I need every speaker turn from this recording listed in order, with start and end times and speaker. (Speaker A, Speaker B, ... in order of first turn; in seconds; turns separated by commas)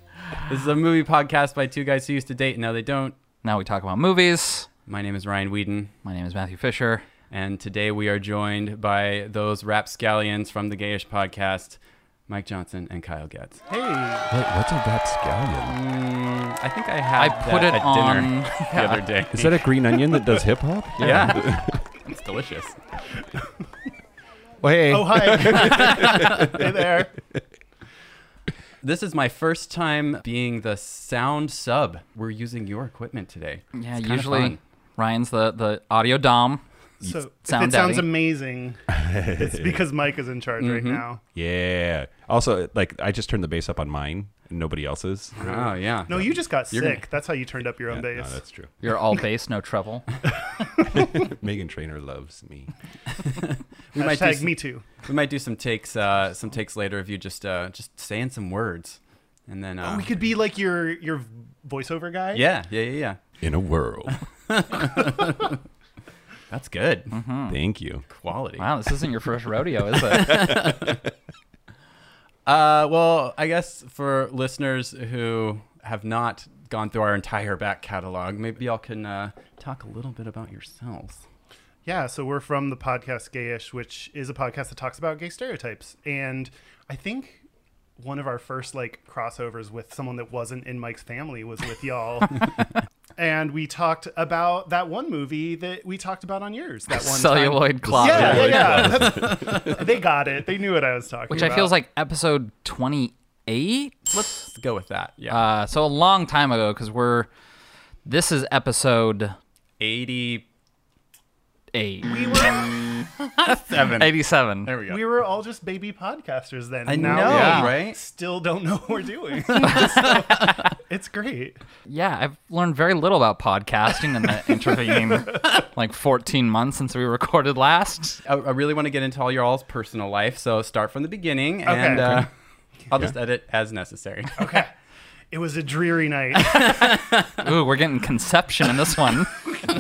Speaker A: 0.4-3.1, Speaker B: 3.4-4.7, Speaker A: 4.9-5.9, Speaker B: 6.0-7.1, Speaker A: 7.3-13.6, Speaker C: 13.7-14.3, Speaker D: 14.3-15.8, Speaker A: 15.7-19.7, Speaker B: 17.2-19.0, Speaker D: 19.3-21.8, Speaker A: 21.0-22.8, Speaker B: 21.0-21.4, Speaker D: 24.6-27.4, Speaker C: 24.9-27.1, Speaker A: 28.8-34.6, Speaker B: 33.8-36.6, Speaker C: 37.0-38.9, Speaker B: 37.5-38.1, Speaker D: 38.9-39.8, Speaker C: 39.4-41.2, Speaker A: 40.6-41.0, Speaker D: 41.3-46.3, Speaker C: 45.4-48.4, Speaker A: 45.5-47.1, Speaker D: 47.9-48.7, Speaker B: 48.8-50.1, Speaker D: 50.9-52.7, Speaker A: 53.3-60.1, Speaker C: 54.0-54.9, Speaker C: 59.8-62.5, Speaker A: 62.3-63.2, Speaker D: 63.4-64.2, Speaker A: 64.5-65.5, Speaker A: 66.5-67.1, Speaker B: 67.1-67.6, Speaker D: 67.5-68.0, Speaker A: 68.1-68.7, Speaker B: 68.6-70.5, Speaker A: 70.1-71.0, Speaker D: 70.1-71.0, Speaker A: 72.5-81.2, Speaker C: 81.8-87.4, Speaker C: 88.0-101.8, Speaker B: 96.9-99.0, Speaker D: 97.8-99.8, Speaker A: 98.1-99.8, Speaker B: 101.3-104.4, Speaker A: 104.1-105.4, Speaker B: 105.3-107.3, Speaker B: 108.0-109.3, Speaker A: 109.8-110.5, Speaker B: 111.7-112.2, Speaker C: 112.1-113.0, Speaker A: 113.3-115.0, Speaker B: 113.8-114.7, Speaker C: 114.8-121.6, Speaker A: 116.9-118.0, Speaker B: 117.0-117.8, Speaker A: 119.5-120.3, Speaker B: 121.9-128.2, Speaker A: 128.2-132.3, Speaker C: 131.7-132.3, Speaker A: 132.9-134.6, Speaker C: 134.4-134.7, Speaker C: 135.3-137.0, Speaker B: 137.4-139.3